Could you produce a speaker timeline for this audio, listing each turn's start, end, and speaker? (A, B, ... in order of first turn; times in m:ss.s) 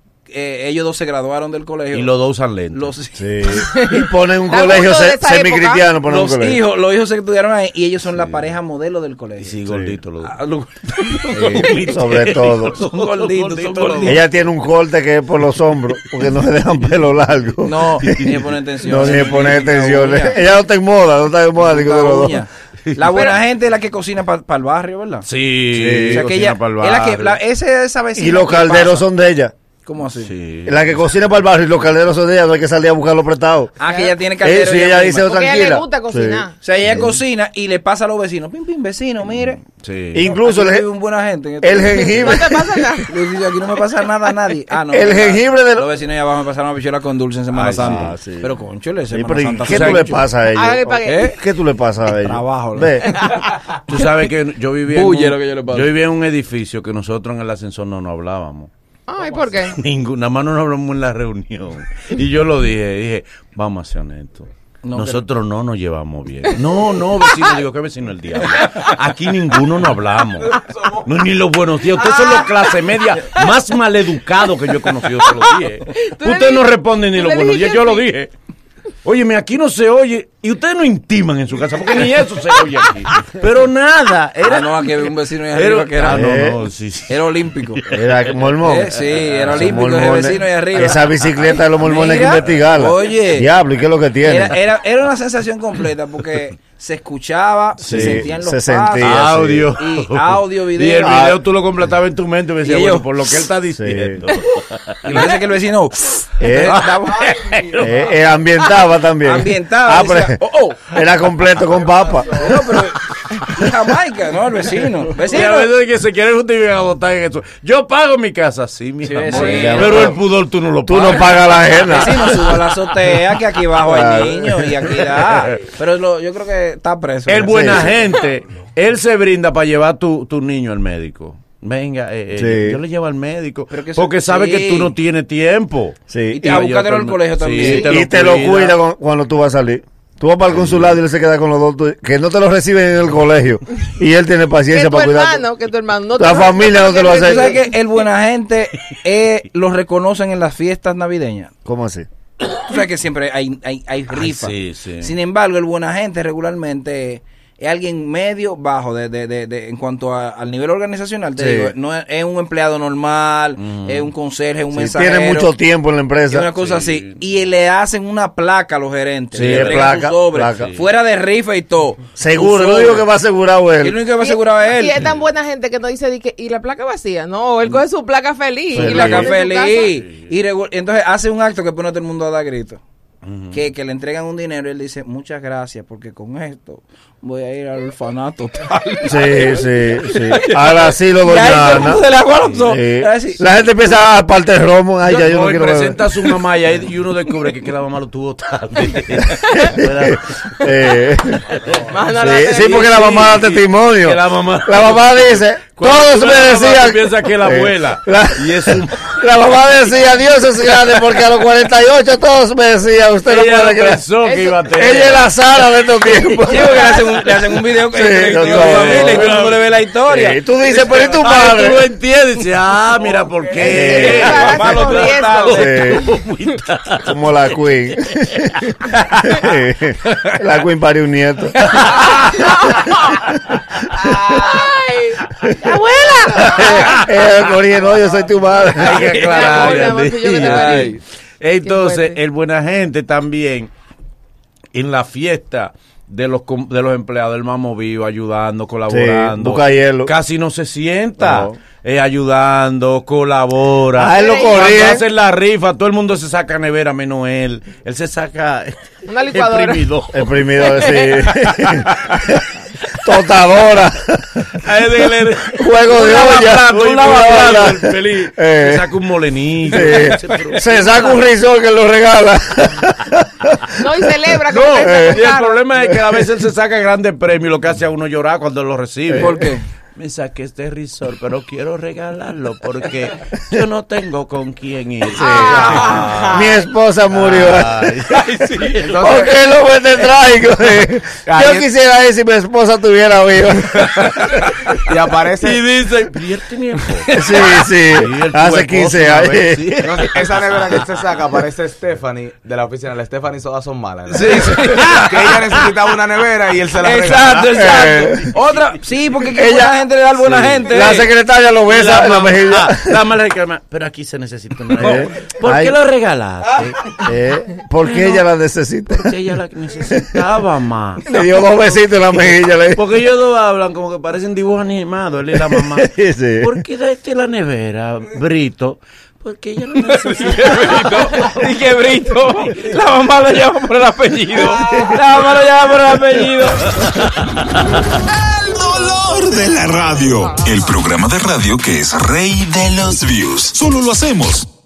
0:00.3-0:02.1 A
0:01.9-0:02.9 B
0:02.7-0:03.7 A
0:03.2-0:06.6 C
0:03.5-0:05.9 D
0:06.1-0:09.6 A
0:09.4-0:10.4 B
0:09.7-0:10.0 C
0:10.2-0:11.9 A
0:11.3-0:14.2 B
0:11.4-0:12.8 C
0:12.6-0:14.2 A
0:14.0-0:22.4 C
0:17.6-0:20.4 A
0:18.0-0:18.4 B
0:18.9-0:19.2 B
0:21.6-0:25.3 A
0:23.1-0:23.4 D
0:25.3-0:27.4 B
0:25.7-0:26.3 C
0:26.1-0:29.0 A
0:28.2-0:29.5 C
0:29.8-0:30.3 A
0:30.2-0:31.0 B
0:30.7-0:33.8 C
0:33.8-0:35.3 A
0:33.9-0:34.1 D
0:34.4-0:37.2 C
0:35.2-0:36.6 D
0:36.6-0:39.6 A
0:39.6-0:40.3 B
0:40.1-0:40.9 C
0:40.2-0:42.5 A
0:41.6-0:42.8 C
0:42.0-0:43.1 D
0:43.1-0:50.3 A
0:44.9-0:45.9 C
0:47.5-0:48.1 B
0:47.8-0:48.5 C
0:49.1-0:53.2 C
0:49.7-0:50.1 B
0:50.5-0:51.4 D
0:51.0-0:51.4 A
0:52.1-0:53.5 A
0:53.9-0:58.7 B
0:54.9-0:55.9 A
0:59.1-0:59.8 D
0:59.6-1:18.3 B
1:04.8-1:05.2 A
1:12.0-1:12.7 D
1:15.9-1:18.1 D
1:19.0-1:28.4 B
1:24.4-1:26.4 A
1:26.1-1:26.6 C
1:27.1-1:27.8 A
1:27.9-1:34.6 C
1:28.6-1:31.0 A
1:28.9-1:29.8 B
1:31.8-1:33.5 A
1:32.1-1:32.7 B
1:34.2-1:41.3 A
1:37.8-1:39.8 C
1:37.8-1:38.3 B
1:39.0-1:45.4 B
1:41.0-1:41.4 C
1:42.6-1:43.1 A
1:43.7-1:44.2 C
1:45.0-1:47.7 A
1:46.4-1:46.9 C
1:46.6-1:48.1 B
1:47.8-1:52.7 C
1:49.2-1:50.8 A
1:52.3-1:55.7 A
1:55.1-2:03.1 B
1:59.0-2:00.2 A
1:59.3-2:00.2 C
2:00.8-2:02.4 C
2:01.9-2:07.9 A
2:03.8-2:04.8 C
2:05.2-2:05.6 B
2:07.3-2:18.8 B
2:07.4-2:08.0 C
2:12.4-2:12.8 C
2:13.7-2:14.9 A
2:16.1-2:16.6 C
2:16.3-2:18.0 A
2:17.6-2:25.4 C
2:20.5-2:21.0 B
2:24.7-2:27.6 D
2:26.2-2:27.6 C
2:27.1-2:31.5 A
2:31.6-2:32.1 C
2:32.6-2:45.5 A
2:34.1-2:35.1 B
2:41.4-2:41.7 C
2:43.6-2:44.1 B
2:44.7-2:46.5 C
2:46.3-2:53.0 A
2:46.6-2:47.2 B
2:49.3-2:50.7 C
2:49.4-2:50.8 B
2:52.2-2:54.0 C
2:53.8-2:55.1 A
2:54.2-2:59.9 D
2:58.7-2:59.3 C
2:58.8-3:02.8 A
3:00.0-3:00.3 B
3:03.2-3:03.6 B
3:03.5-3:13.4 A
3:09.1-3:12.1 C
3:12.6-3:16.0 C
3:15.0-3:20.7 B
3:19.4-3:34.0 C
3:21.5-3:29.2 B
3:21.9-3:23.3 D
3:33.3-3:37.2 B
3:34.2-3:35.0 D
3:34.7-3:37.0 C
3:36.5-3:41.1 A
3:37.9-3:39.3 C
3:38.3-3:39.7 B
3:40.1-3:41.8 C
3:40.7-3:49.3 B
3:43.5-3:45.7 A
3:43.6-3:44.6 C
3:43.6-3:45.9 D
3:45.5-3:46.1 C
3:47.0-3:52.6 C
3:51.6-3:52.9 B
3:52.3-3:53.2 D
3:53.2-3:54.6 C
3:53.9-3:57.3 D
3:56.4-3:57.4 B
3:56.4-3:59.9 C
3:58.7-4:03.7 B
3:58.8-4:01.0 D
3:59.5-4:01.0 A
4:01.6-4:02.2 D
4:04.7-4:22.4 B
4:08.9-4:10.1 C
4:11.2-4:11.6 C
4:14.0-4:15.0 C
4:14.1-4:15.0 D
4:19.1-4:19.9 D
4:20.1-4:22.4 C
4:20.6-4:21.3 D
4:23.0-4:24.6 C
4:24.5-4:31.1 B
4:25.5-4:28.8 C
4:25.9-4:27.7 A
4:29.7-4:36.3 C
4:29.7-4:30.8 A
4:33.8-4:35.7 D
4:34.5-4:49.2 B
4:39.1-4:39.4 C
4:39.2-4:39.6 A
4:45.2-4:46.6 D
4:45.2-4:54.1 C
4:45.3-4:46.3 E
4:48.3-4:48.9 A
4:48.8-4:49.4 E
4:51.2-4:51.7 E
4:53.8-4:54.8 B
4:54.7-4:55.6 E
4:55.4-4:57.2 B
4:57.0-4:57.6 A
4:57.1-5:00.1 C
4:57.9-5:00.6 B
4:59.8-5:07.7 E
5:04.1-5:05.6 A
5:04.6-5:05.0 B
5:06.8-5:11.1 A
5:07.5-5:08.3 C
5:09.3-5:09.8 C
5:10.2-5:11.0 B
5:10.7-5:13.0 C
5:11.7-5:17.1 B
5:14.8-5:15.8 C
5:17.0-5:19.2 C
5:17.8-5:18.2 B
5:18.9-5:21.1 B
5:19.9-5:20.2 C
5:21.0-5:22.8 C
5:22.7-5:31.6 B
5:25.3-5:26.6 C
5:29.8-5:36.7 A
5:34.5-5:35.0 C
5:38.0-5:44.5 F